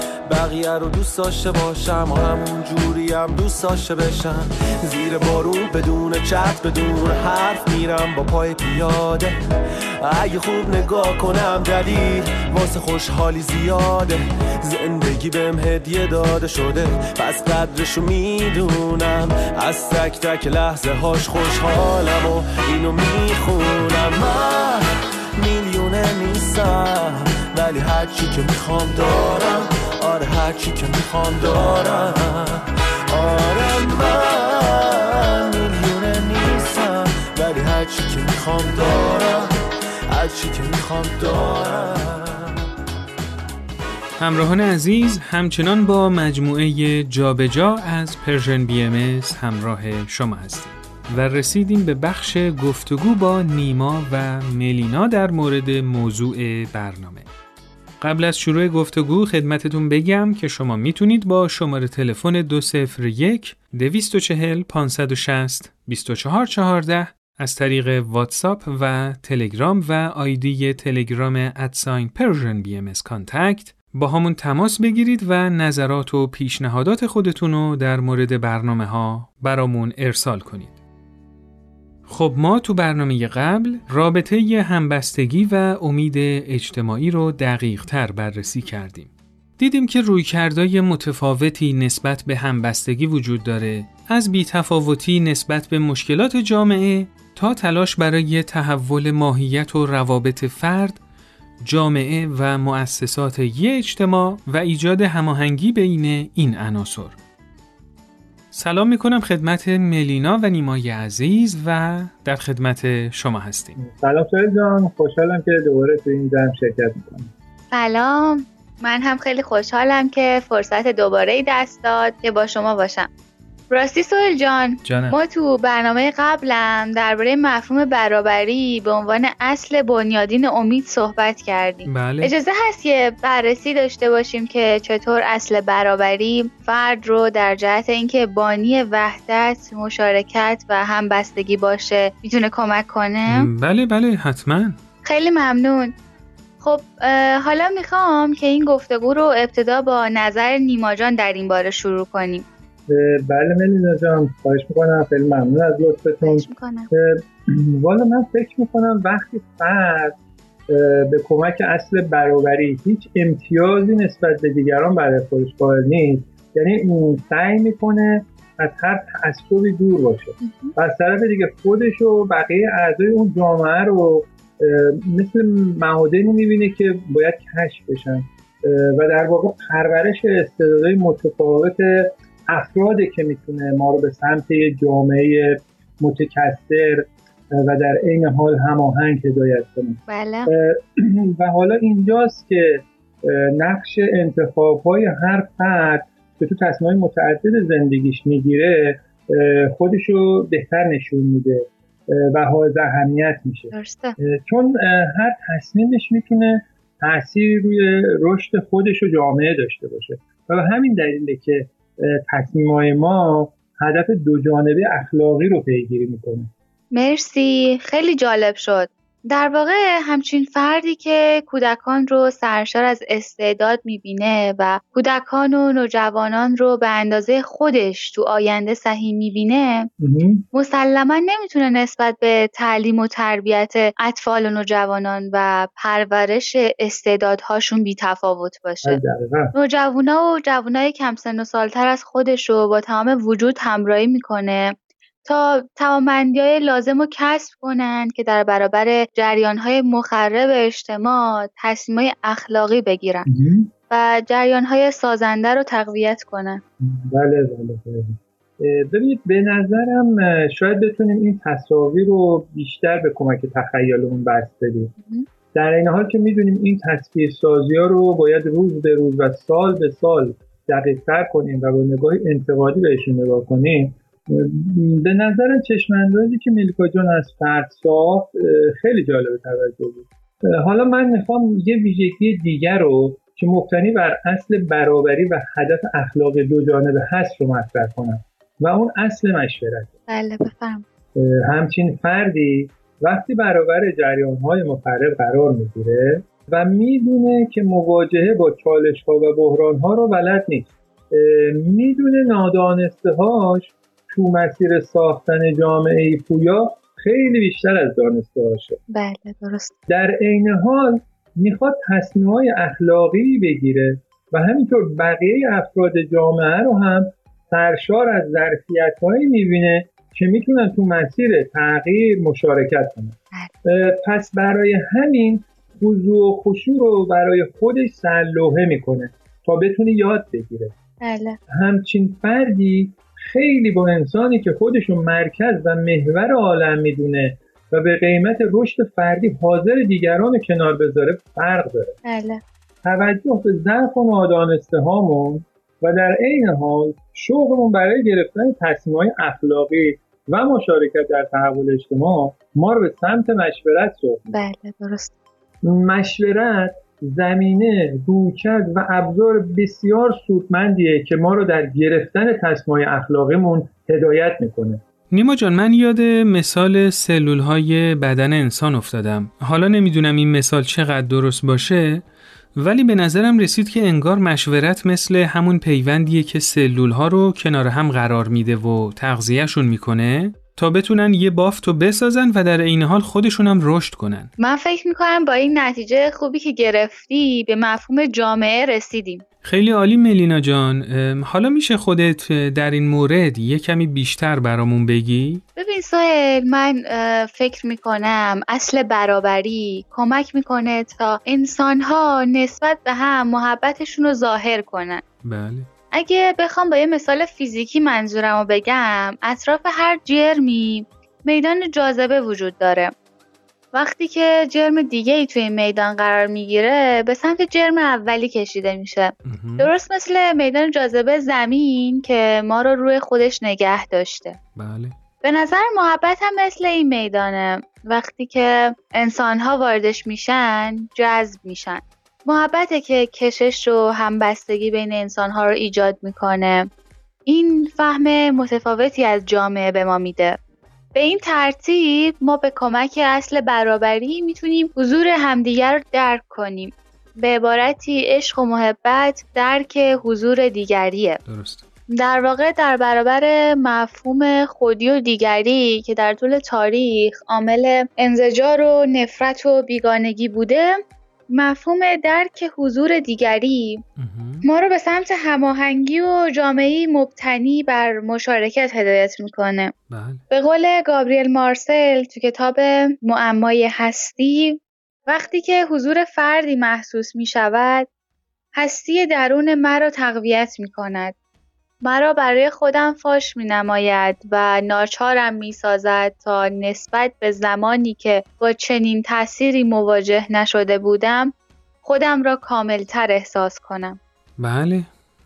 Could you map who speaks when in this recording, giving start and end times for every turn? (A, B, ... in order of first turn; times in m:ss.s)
0:00.3-0:09.3 A
0:10.0-0:24.8 A
0:25.4-0:39.5 A
0:40.1-0:42.5 A
0:44.2-0:57.3 B
0:58.0-1:20.8 B
1:22.1-1:41.0 B
1:41.6-1:47.2 B
1:48.5-1:53.8 B
1:53.8-1:57.3 C
1:57.7-2:03.1 D
2:03.7-2:23.5 D
2:04.8-2:05.2 B
2:11.9-2:12.3 B
2:23.3-2:24.8 B
2:25.0-2:25.9 D
2:26.6-2:32.4 D
2:32.9-2:40.2 C
2:36.2-2:36.9 D
2:40.7-3:36.5 C
2:50.4-2:50.7 D
3:10.1-3:10.5 D
3:23.7-3:24.2 D
3:36.9-3:49.9 D
3:50.0-3:50.4 C
3:50.5-3:59.0 D
3:58.8-3:59.5 C
3:59.5-4:04.7 D
4:05.2-4:13.2 D
4:13.3-4:13.7 C
4:13.9-4:16.6 D
4:16.8-4:24.9 C
4:25.5-4:49.9 C
4:50.1-4:50.8 D
4:51.2-5:08.8 C
5:08.9-5:09.7 D
5:09.9-5:30.7 C
5:31.0-5:31.4 D
5:31.5-5:42.0 C
5:42.0-5:42.4 D
5:42.8-5:54.4 C
5:54.3-5:55.1 D
5:55.6-6:04.8 C
6:05.1-6:12.0 B
6:12.6-6:24.3 B
6:24.4-6:29.2 D
6:29.4-6:35.4 B
6:35.6-6:45.0 D
6:45.2-6:45.7 B
6:45.9-6:52.9 D
6:53.7-7:04.4 D
6:59.2-6:59.7 B
7:04.5-7:05.0 B
7:05.2-7:16.7 D
7:17.3-7:20.4 D
7:20.9-7:31.2 D
7:31.2-7:31.6 B
7:32.0-7:43.8 D
7:44.0-7:44.4 B
7:44.4-7:49.7 D
7:49.9-7:50.2 B
7:50.3-7:57.9 D
7:58.6-8:01.1 D
8:01.8-8:11.3 D
8:11.8-8:14.0 D
8:14.4-8:14.9 B